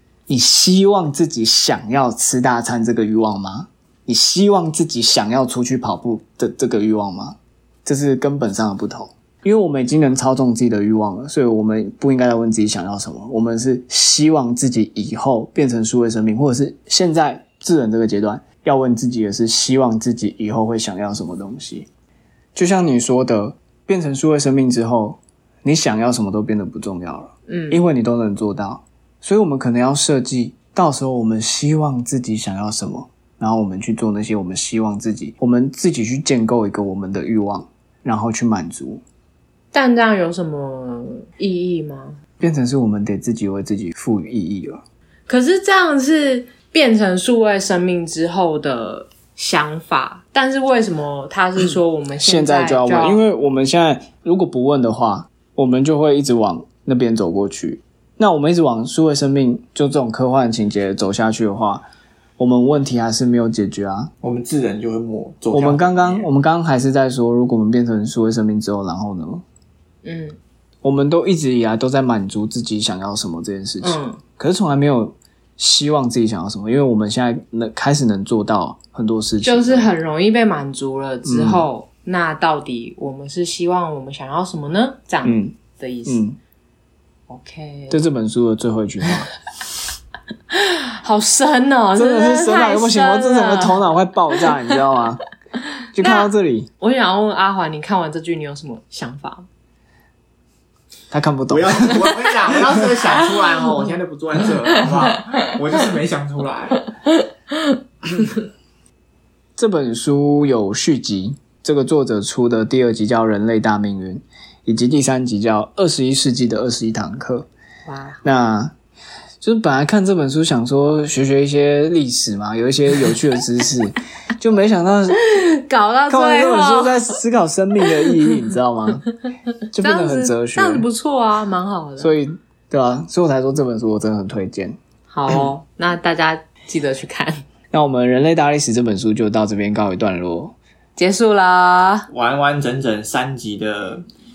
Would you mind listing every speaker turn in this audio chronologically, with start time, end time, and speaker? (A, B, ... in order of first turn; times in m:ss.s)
0:00.3-0:21.9 A
0:22.6-0:39.0 A
0:27.5-0:27.8 B
0:39.7-0:42.2 B
0:42.4-0:44.8 A
0:45.3-0:53.2 B
0:52.2-1:01.9 A
1:02.4-1:04.1 A
1:04.2-1:06.3 C
1:05.5-1:09.4 A
1:10.0-1:10.4 B
1:10.8-1:19.9 A
1:13.8-1:14.2 B
1:19.4-1:26.2 B
1:21.2-1:21.6 A
1:25.2-1:26.4 A
1:27.3-1:28.0 B
1:27.9-1:29.3 A
1:30.5-1:33.8 B
1:32.0-1:35.2 A
1:34.5-1:34.8 B
1:35.9-1:36.7 A
1:36.0-1:36.3 B
1:36.8-1:39.5 B
1:41.1-1:42.1 A
1:41.5-1:46.9 C
1:49.6-1:57.5 A
1:57.9-1:58.2 B
1:58.2-1:58.7 A
1:59.4-2:05.2 A
2:05.3-2:07.2 B
2:06.1-2:09.0 A
2:07.8-2:08.4 B
2:09.7-2:10.9 A
2:09.8-2:12.1 B
2:12.0-2:14.8 A
2:15.1-2:17.4 B
2:17.7-2:20.6 A
2:21.0-2:22.1 B
2:22.1-2:24.0 C